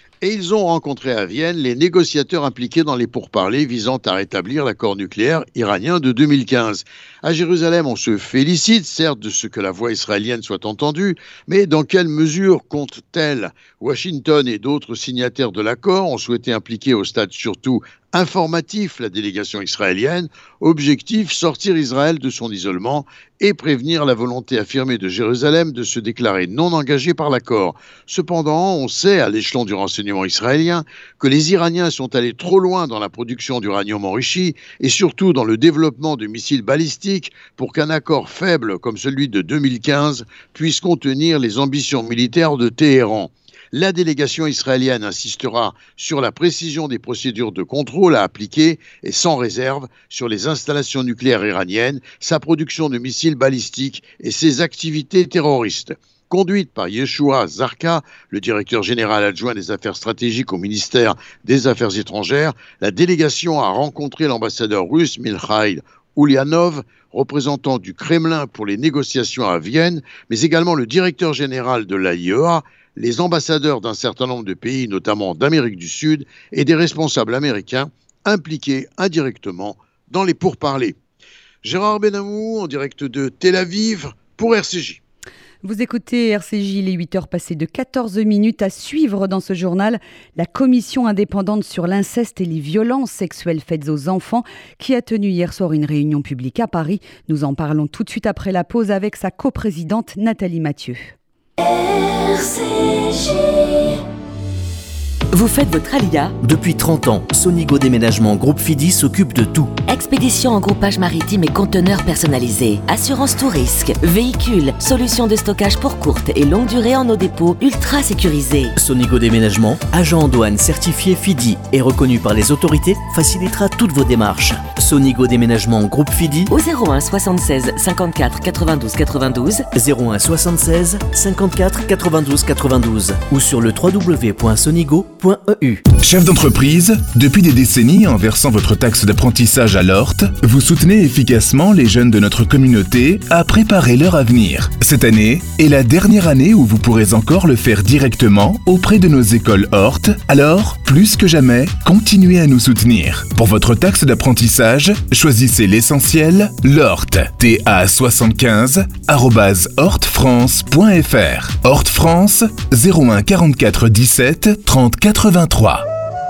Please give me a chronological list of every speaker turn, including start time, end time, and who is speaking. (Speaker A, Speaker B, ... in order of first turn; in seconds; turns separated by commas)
Speaker A: 0.2-81.0, Speaker A: 81.6-85.0, Speaker B: 85.6-101.2, Speaker C: 105.3-106.3, Speaker D: 106.4-109.7, Speaker C: 109.9-118.7, Speaker D: 118.8-126.5, Speaker C: 126.5-129.6, Speaker D: 129.7-135.8, Speaker E: 136.0-165.9